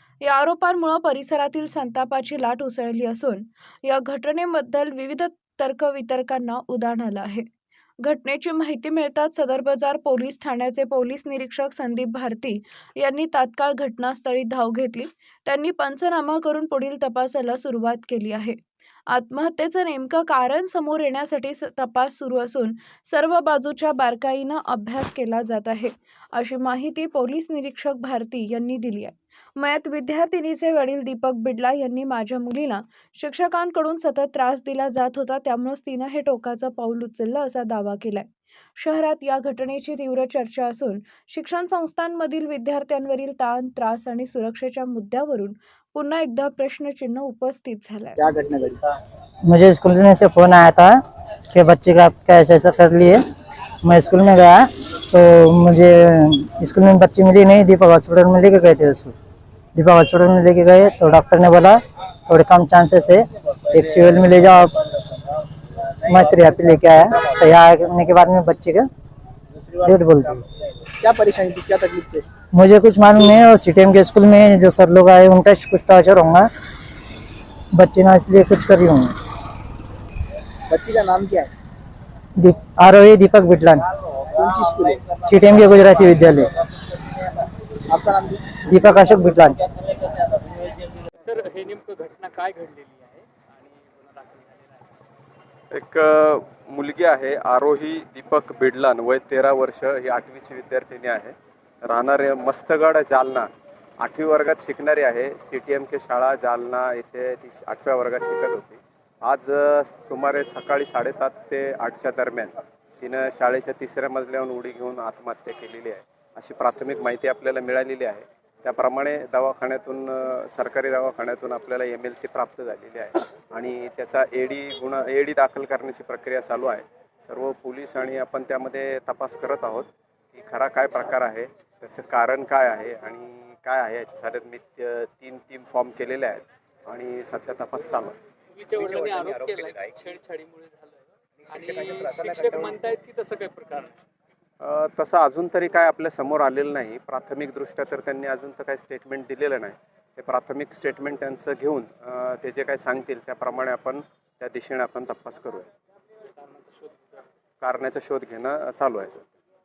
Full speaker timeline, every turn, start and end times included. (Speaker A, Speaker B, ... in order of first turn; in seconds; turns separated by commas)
Speaker A: 0.2-7.5, Speaker A: 8.0-18.6, Speaker A: 19.1-48.2, Speaker B: 48.2-48.8, Speaker C: 49.4-51.0, Speaker C: 51.5-53.2, Speaker C: 53.8-59.1, Speaker C: 59.7-64.7, Speaker C: 66.0-68.9, Speaker C: 69.8-70.4, Speaker B: 71.0-72.3, Speaker C: 72.5-76.5, Speaker C: 77.7-79.1, Speaker B: 80.7-81.5, Speaker C: 82.4-83.8, Speaker B: 84.3-85.0, Speaker C: 85.1-86.5, Speaker B: 87.9-88.4, Speaker C: 88.6-89.6, Speaker D: 91.2-94.9, Speaker E: 95.7-103.5, Speaker E: 104.0-138.2, Speaker D: 138.5-143.9, Speaker E: 144.6-155.7, Speaker D: 156.3-157.3, Speaker E: 157.6-159.3